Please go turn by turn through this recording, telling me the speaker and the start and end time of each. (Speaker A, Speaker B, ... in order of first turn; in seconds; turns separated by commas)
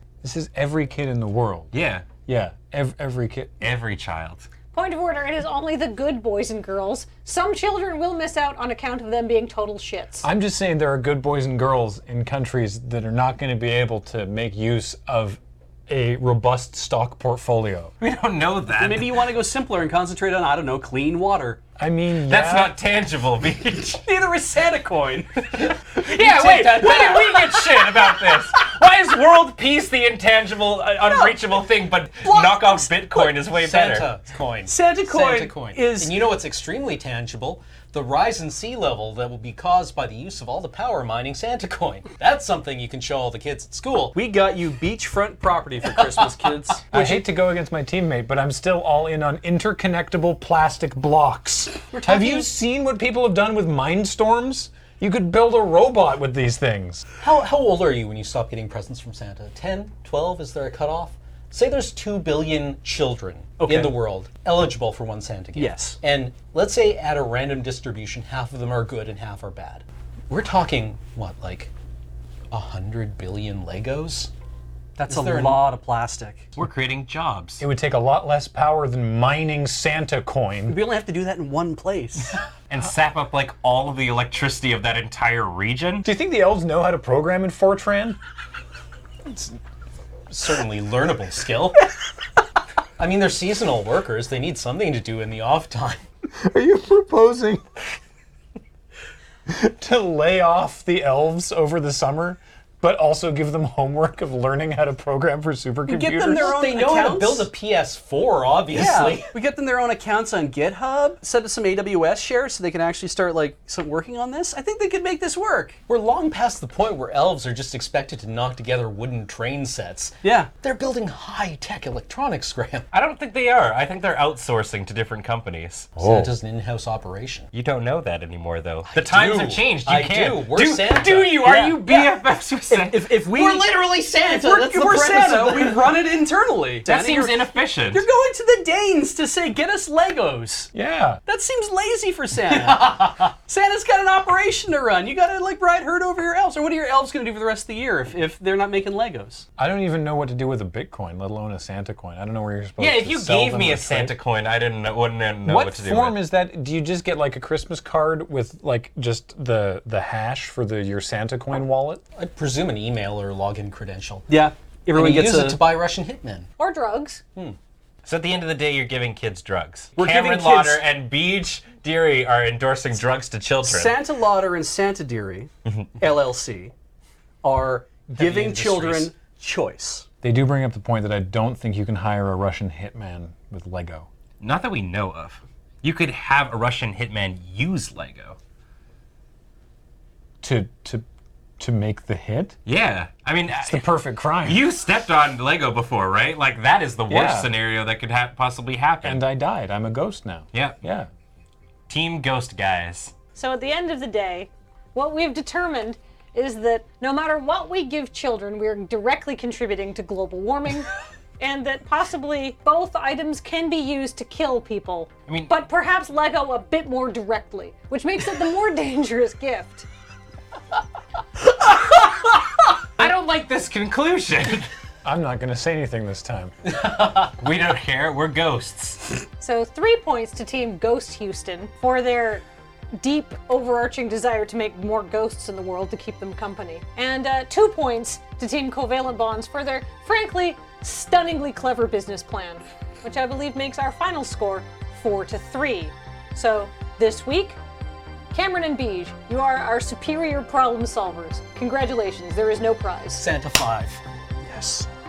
Speaker A: 0.2-1.7, Speaker B: 1.7-2.1, Speaker A: 2.2-3.6, Speaker B: 3.6-4.5, Speaker C: 4.7-10.2, Speaker A: 10.2-17.9, Speaker B: 18.0-19.2, Speaker D: 18.8-21.6, Speaker A: 21.8-22.8, Speaker B: 22.2-24.0, Speaker D: 24.0-28.6, Speaker B: 25.6-34.1, Speaker D: 31.0-31.4, Speaker D: 32.2-33.0, Speaker E: 33.1-44.1, Speaker D: 34.7-36.3, Speaker D: 44.1-47.3, Speaker E: 46.0-46.3, Speaker A: 46.9-57.0, Speaker D: 52.0-52.5, Speaker E: 57.2-71.7, Speaker D: 63.6-63.9, Speaker D: 65.5-66.0, Speaker E: 72.5-74.3, Speaker D: 75.0-76.5, Speaker E: 75.1-75.7, Speaker B: 76.5-77.6, Speaker A: 77.6-80.8, Speaker D: 80.7-82.4, Speaker B: 82.7-86.1, Speaker A: 86.0-88.2, Speaker E: 90.3-91.8, Speaker E: 93.0-96.0, Speaker A: 96.4-97.6, Speaker A: 99.5-106.5, Speaker D: 105.9-107.5, Speaker E: 106.3-109.3, Speaker D: 108.7-115.8, Speaker E: 115.9-122.9, Speaker D: 120.2-120.5, Speaker B: 122.9-125.9, Speaker E: 126.0-127.5, Speaker A: 126.0-126.3, Speaker B: 127.5-133.1, Speaker E: 128.9-131.4, Speaker D: 131.4-132.1, Speaker D: 132.7-133.7, Speaker E: 133.3-136.0, Speaker D: 134.2-140.7, Speaker B: 136.9-138.1, Speaker A: 140.7-141.2, Speaker D: 141.3-149.4, Speaker E: 142.6-143.3, Speaker A: 149.6-154.2, Speaker B: 152.8-156.2, Speaker A: 155.4-162.0, Speaker E: 162.2-164.3, Speaker D: 164.3-165.6, Speaker E: 164.9-166.5, Speaker C: 166.6-167.2, Speaker B: 168.1-174.0, Speaker D: 170.0-170.8, Speaker D: 173.6-176.7, Speaker B: 175.7-175.9, Speaker D: 177.4-180.1, Speaker A: 178.1-179.1, Speaker A: 180.2-184.1, Speaker B: 184.4-188.4, Speaker A: 190.4-191.1, Speaker A: 191.6-192.6, Speaker B: 192.7-193.8, Speaker A: 193.5-194.6, Speaker B: 194.4-199.2, Speaker A: 197.1-197.5, Speaker A: 199.0-201.1, Speaker B: 200.5-200.8, Speaker B: 201.9-203.1, Speaker C: 203.3-210.9, Speaker C: 211.4-219.9, Speaker B: 223.0-224.7, Speaker A: 225.0-226.5, Speaker B: 227.0-229.2, Speaker C: 229.4-232.4, Speaker C: 233.0-247.6, Speaker C: 248.3-253.2, Speaker E: 253.2-254.0, Speaker D: 254.4-254.9